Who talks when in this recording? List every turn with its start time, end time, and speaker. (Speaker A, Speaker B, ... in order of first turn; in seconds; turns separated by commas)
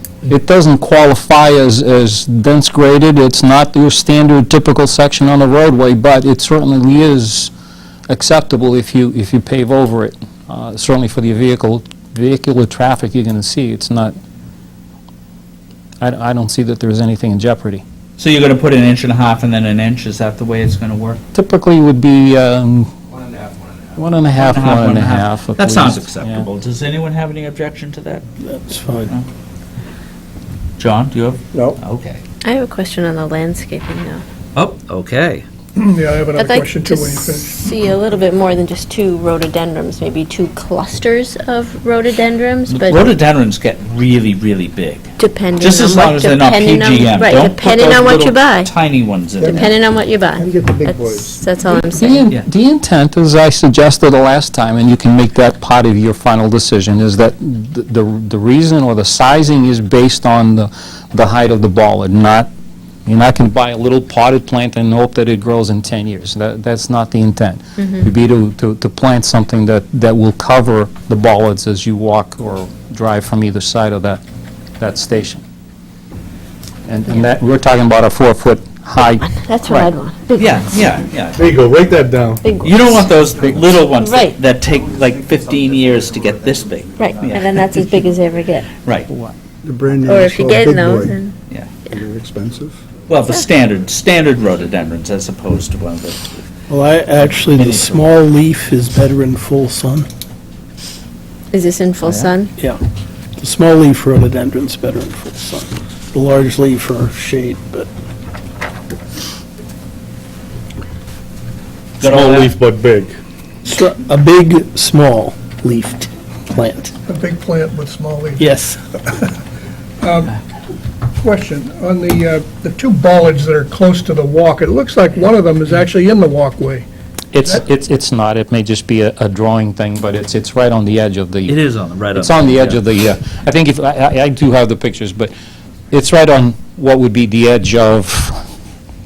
Speaker A: 0.3-7.5, Speaker A: 8.1-14.1, Speaker A: 16.0-17.8, Speaker B: 18.2-21.2, Speaker A: 21.3-22.9, Speaker A: 23.9-26.5, Speaker B: 24.3-28.3, Speaker C: 28.4-29.1, Speaker B: 30.8-32.2, Speaker D: 31.5-31.8, Speaker E: 32.4-34.2, Speaker B: 34.5-35.4, Speaker F: 35.8-37.6, Speaker E: 36.4-43.1, Speaker B: 42.7-49.7, Speaker E: 45.2-48.7, Speaker D: 49.4-51.4, Speaker E: 49.5-52.3, Speaker A: 51.9-62.5, Speaker A: 63.0-74.2, Speaker A: 74.8-75.4, Speaker A: 76.9-79.9, Speaker E: 79.2-80.5, Speaker B: 80.3-81.5, Speaker G: 81.3-82.4, Speaker E: 82.4-82.9, Speaker B: 82.6-87.8, Speaker E: 84.0-84.3, Speaker E: 87.0-88.7, Speaker B: 88.8-89.1, Speaker D: 89.6-91.2, Speaker E: 90.0-91.3, Speaker D: 91.9-92.8, Speaker B: 93.1-96.5, Speaker C: 96.7-100.1, Speaker B: 97.5-98.1, Speaker E: 101.5-102.5, Speaker B: 102.0-102.3, Speaker C: 103.4-107.9, Speaker B: 112.0-112.5, Speaker G: 112.0-113.2, Speaker C: 113.6-116.9, Speaker F: 117.0-118.5, Speaker C: 118.4-118.8, Speaker F: 120.0-120.3, Speaker F: 121.2-126.8, Speaker A: 127.3-131.6, Speaker B: 131.5-132.8, Speaker A: 132.1-135.3, Speaker A: 135.9-138.4